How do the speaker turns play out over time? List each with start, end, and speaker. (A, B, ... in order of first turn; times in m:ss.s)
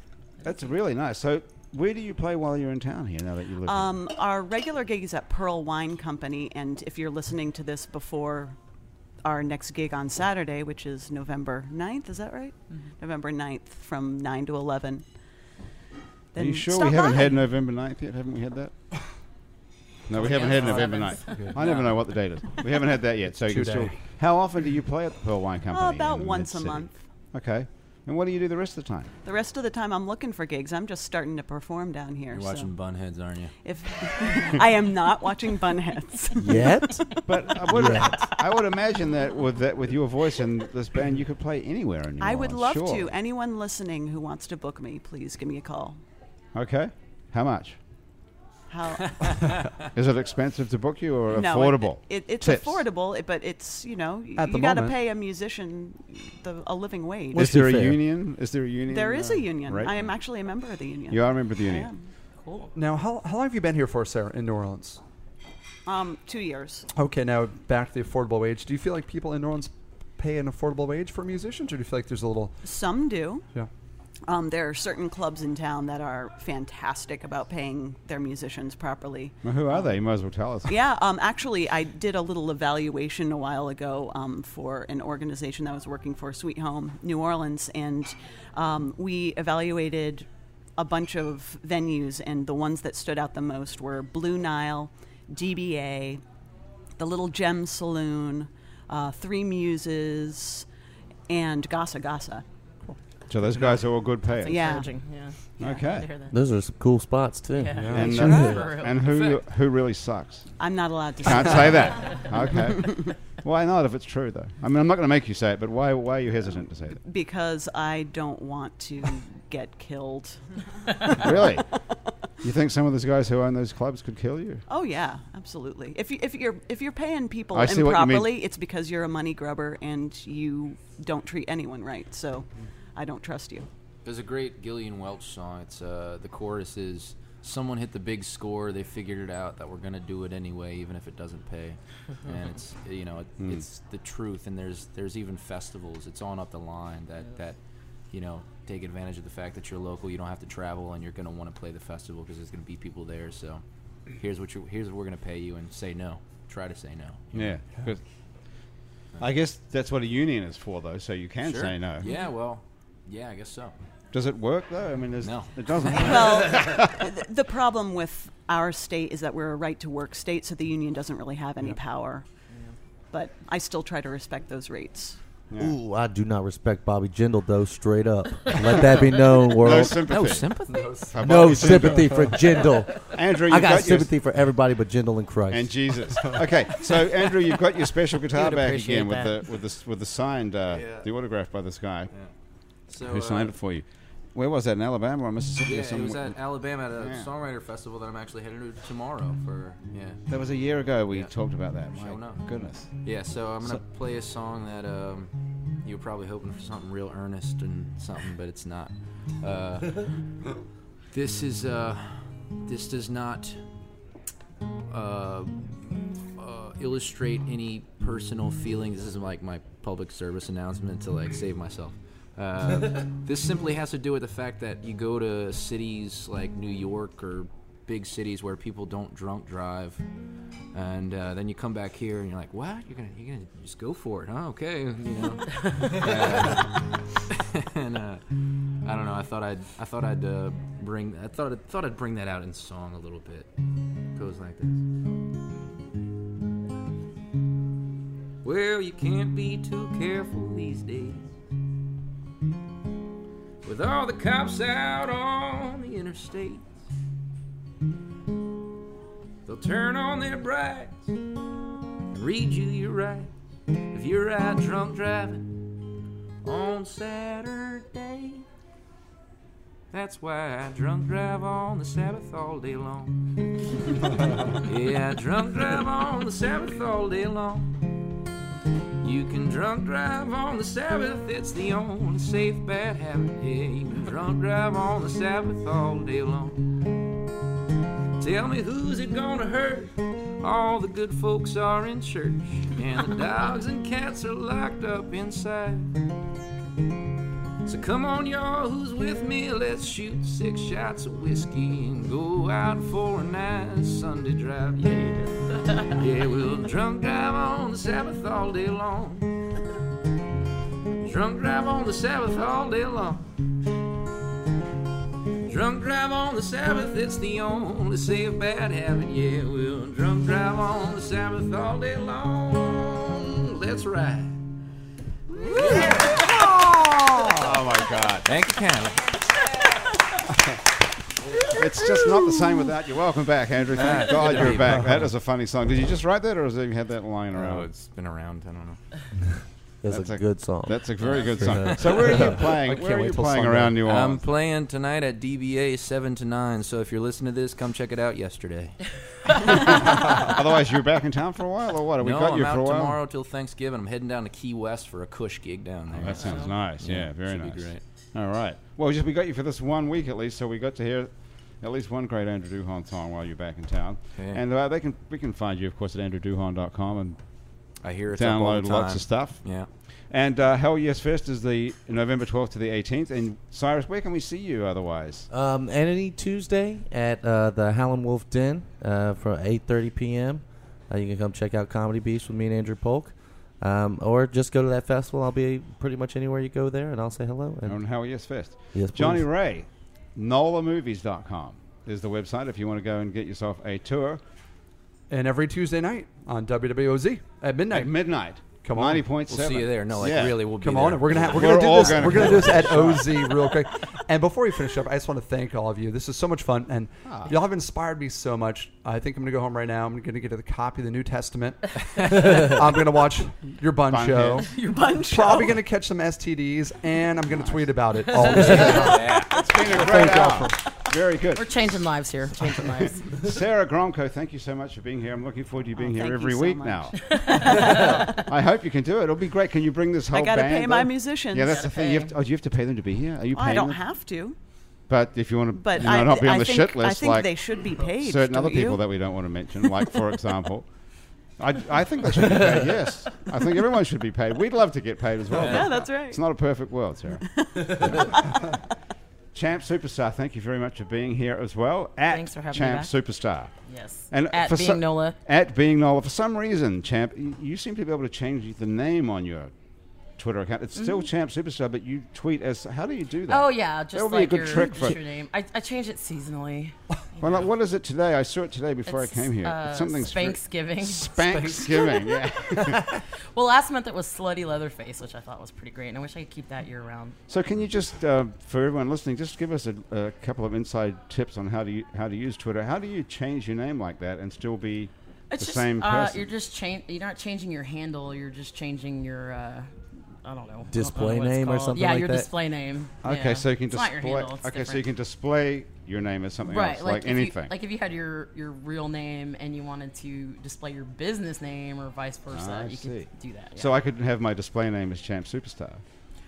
0:00.4-0:03.9 A
0:03.6-0:08.6 B
0:09.2-0:15.1 B
0:16.3-0:17.4 B
0:16.4-0:18.7 A
0:20.1-0:29.1 A
0:20.2-0:21.5 C
0:20.4-0:20.9 D
0:20.5-0:21.5 E
0:21.6-0:22.0 D
0:23.5-0:24.0 E
0:25.7-0:27.0 B
0:29.2-0:32.7 B
0:32.3-0:33.5 D
0:33.6-0:38.4 B
0:36.4-0:37.1 F
0:37.3-0:43.1 A
0:37.7-0:38.2 F
0:42.2-0:46.0 B
0:46.6-0:47.8 A
0:48.7-0:49.5 B
0:49.2-0:49.7 D
0:49.9-0:52.8 A
0:51.3-0:57.5 B
0:54.4-0:55.0 E
0:57.3-0:58.0 F
0:57.4-1:00.0 A
0:58.9-1:02.0 B
1:01.1-1:01.9 A
1:02.4-1:02.7 C
1:02.8-1:05.0 E
1:05.9-1:06.9 B
1:07.0-1:12.6 E
1:12.6-1:13.4 B
1:14.3-1:19.9 B
1:19.4-1:20.8 A
1:20.7-1:36.2 B
1:37.0-1:40.7 B
1:41.3-1:42.4 B
1:43.3-1:44.7 A
1:44.4-1:46.4 C
1:44.5-1:44.9 B
1:45.6-1:46.1 A
1:46.3-1:48.6 F
1:47.6-1:49.1 C
1:47.8-1:48.4 E
1:47.9-1:50.5 A
1:49.0-1:49.3 D
1:50.6-1:53.2 B
1:51.2-1:57.0 A
1:52.0-1:52.3 C
1:57.0-2:00.4 B
2:00.9-2:01.6 B
2:01.1-2:01.7 A
2:02.4-2:04.6 A
2:04.7-2:13.7 B
2:07.5-2:08.4 A
2:14.0-2:27.6 D
2:28.1-2:33.6 D
2:34.2-2:37.6 D
2:37.3-2:38.0 A
2:39.2-2:42.1 A
2:41.4-2:43.8 D
2:44.1-2:47.0 A
2:45.2-2:46.7 D
2:46.0-2:52.3 B
2:53.1-2:55.2 B
2:55.5-2:55.8 A
2:55.6-3:00.1 F
2:59.5-3:04.1 A
3:00.0-3:01.3 D
3:01.2-3:05.7 F
3:05.5-3:12.1 A
3:08.7-3:09.2 F
3:10.7-3:11.1 D
3:12.9-3:13.5 D
3:13.0-3:16.4 A
3:15.6-3:20.2 D
3:17.0-3:17.3 A
3:20.3-3:22.9 A
3:21.9-3:25.3 D
3:25.8-3:30.2 D
3:31.1-3:33.6 D
3:34.9-3:50.0 D
3:50.7-4:03.5 D
3:55.6-3:56.0 C
4:04.1-4:04.8 D
4:08.4-4:11.3 D
4:13.6-4:16.7 D
4:19.4-4:21.1 D
4:22.1-4:23.3 D
4:23.9-4:25.6 D
4:26.4-4:28.5 D
4:29.9-4:37.8 D
4:39.0-4:46.7 D
4:48.2-4:55.9 D
4:57.6-5:09.4 D
5:11.0-5:13.2 D
5:15.5-5:24.4 D
5:25.3-5:26.5 B
5:25.5-5:26.3 D
5:26.1-5:27.4 E
5:27.3-5:28.3 A
5:28.2-5:29.7 D
5:31.2-5:31.6 D
5:31.4-5:32.8 B
5:31.5-5:37.7 A
5:33.7-5:34.9 D
5:37.3-5:38.8 D
5:39.8-5:42.2 F
5:39.9-5:44.2 A
5:41.0-5:42.3 D
5:41.8-5:43.8 E
5:43.8-5:48.8 D
5:49.4-5:53.0 A
5:52.0-5:57.8 D
5:55.9-6:07.2 A
6:04.2-6:04.4 D
6:07.8-6:09.7 D
6:08.1-6:09.4 A
6:10.1-6:15.3 A
6:15.3-6:27.8 F
6:27.7-6:34.2 A
6:28.7-6:29.3 F
6:35.1-6:39.1 E
6:37.7-6:40.4 A
6:39.3-6:42.5 D
6:40.6-6:54.5 E
6:41.1-6:43.3 A
6:47.1-6:47.4 A
6:53.9-6:54.5 A
6:54.4-6:55.6 B
6:55.0-6:59.0 E
6:58.2-6:58.8 C
6:58.4-6:59.7 D
6:58.4-7:01.6 A
6:58.6-7:00.1 B
6:59.6-7:00.6 E
7:01.3-7:03.2 C
7:02.8-7:13.8 A
7:05.8-7:08.3 B
7:07.0-7:08.0 C
7:10.1-7:11.6 B
7:11.5-7:12.1 C
7:13.3-7:14.4 B
7:14.9-7:20.7 A
7:15.6-7:18.8 B
7:21.4-7:28.1 A
7:25.3-7:26.2 B
7:27.2-7:28.6 B
7:29.3-7:33.6 A
7:32.1-7:32.9 C
7:33.7-7:35.2 C
7:34.1-7:39.5 A
7:40.2-7:45.0 A
7:43.3-7:47.5 C
7:47.2-7:52.9 A
7:48.9-7:57.2 C
7:57.3-8:06.3 A
8:05.3-8:14.8 C
8:10.7-8:12.3 F
8:13.0-8:17.5 A
8:16.5-8:23.7 C
8:22.3-8:25.8 A